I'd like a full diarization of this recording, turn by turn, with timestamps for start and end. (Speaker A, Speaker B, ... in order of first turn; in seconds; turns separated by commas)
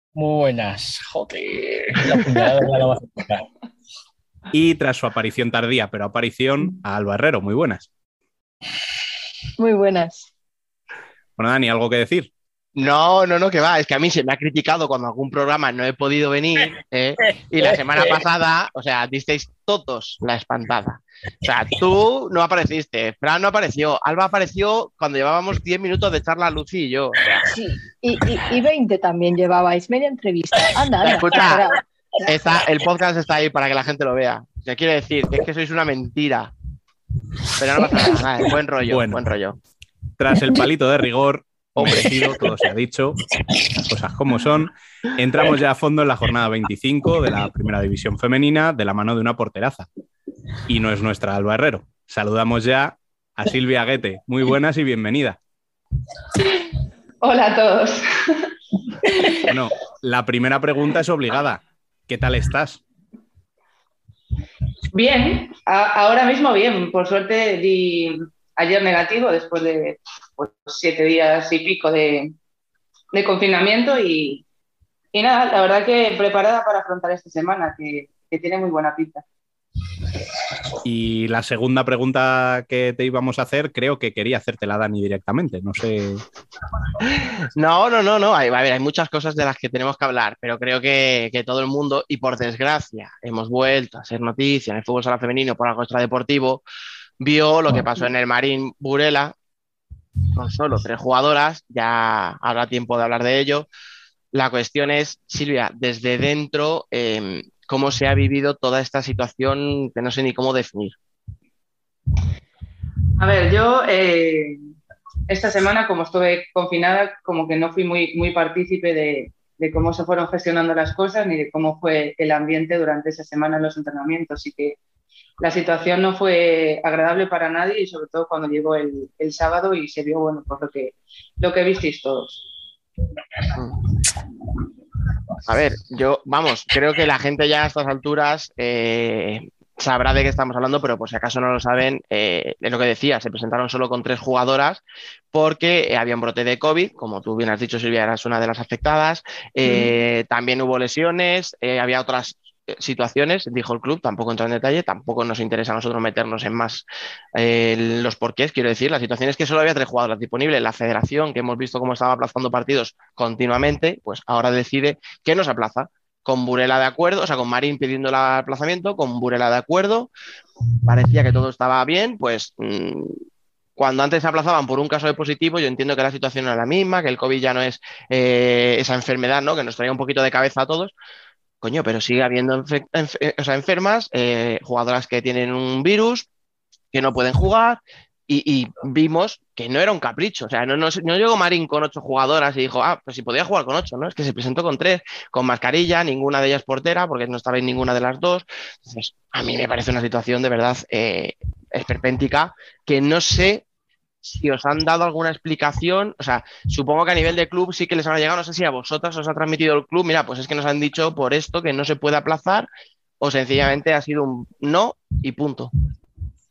Speaker A: 0.1-3.5, Speaker B: 4.5-7.9, Speaker C: 9.6-10.3, Speaker B: 11.4-12.3, Speaker D: 12.8-27.4, Speaker A: 17.7-18.2, Speaker C: 27.5-31.8, Speaker D: 31.0-31.6, Speaker D: 32.2-36.5, Speaker D: 37.6-39.6, Speaker B: 38.9-39.2, Speaker B: 40.2-43.3, Speaker B: 43.8-49.9, Speaker B: 50.6-55.4, Speaker E: 57.2-58.5, Speaker E: 59.1-59.4, Speaker B: 59.5-62.8, Speaker E: 64.9-72.3, Speaker E: 73.1-74.4, Speaker E: 75.1-79.2, Speaker B: 80.8-86.2, Speaker D: 87.1-96.6, Speaker D: 97.2-99.3, Speaker D: 100.3-103.7, Speaker D: 104.3-110.9, Speaker E: 113.2-114.6, Speaker E: 115.3-124.8, Speaker E: 125.4-132.4, Speaker D: 135.4-144.8, Speaker D: 145.3-156.8, Speaker D: 157.3-170.1, Speaker D: 170.8-173.1, Speaker D: 173.8-180.9, Speaker D: 181.6-186.3, Speaker D: 186.9-203.6, Speaker D: 204.2-212.7, Speaker D: 213.2-215.7